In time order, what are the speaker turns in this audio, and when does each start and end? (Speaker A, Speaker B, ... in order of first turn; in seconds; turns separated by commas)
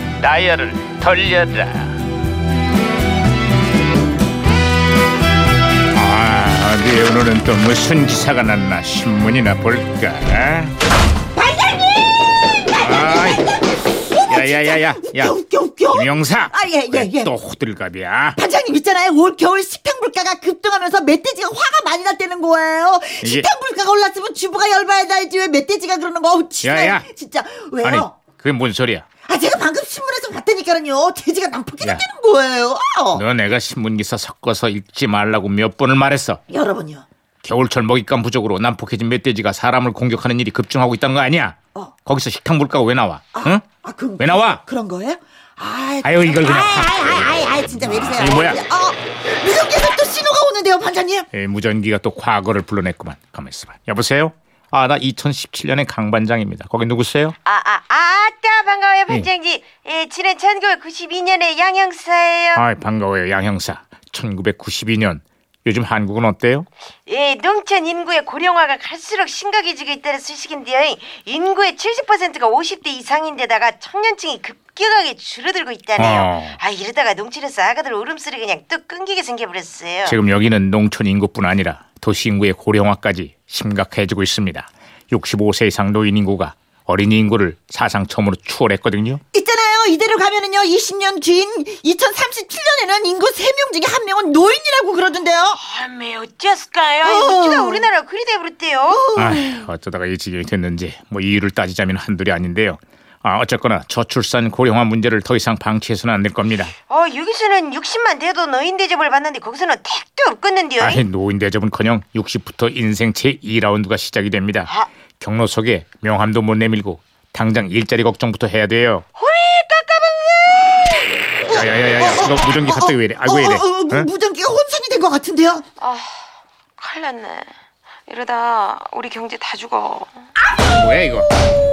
Speaker A: 0.2-2.0, Speaker A: 5.9-10.7, Speaker B: 11.3-12.1, Speaker B: 12.6-17.3, Speaker A: 12.8-15.4, Speaker A: 15.9-18.4, Speaker B: 18.4-28.1, Speaker A: 23.2-23.5, Speaker A: 26.6-27.1, Speaker A: 27.8-29.1, Speaker B: 29.2-33.2, Speaker A: 33.1-36.4, Speaker B: 36.5-37.0, Speaker A: 37.4-43.7, Speaker B: 43.3-51.3, Speaker A: 44.2-44.6, Speaker A: 46.0-48.6, Speaker A: 51.3-57.4, Speaker C: 57.4-62.6, Speaker A: 62.5-66.7, Speaker C: 67.0-80.2, Speaker A: 76.0-76.6, Speaker A: 80.0-89.2, Speaker B: 89.3-95.6, Speaker C: 95.5-99.0, Speaker B: 97.0-97.8, Speaker B: 98.9-99.7, Speaker A: 99.1-106.7, Speaker C: 106.9-111.0, Speaker A: 110.8-119.0, Speaker C: 119.2-121.0, Speaker B: 121.5-125.6, Speaker A: 121.5-124.1, Speaker C: 125.8-126.1, Speaker C: 126.8-127.5, Speaker C: 128.1-130.1, Speaker A: 130.6-131.3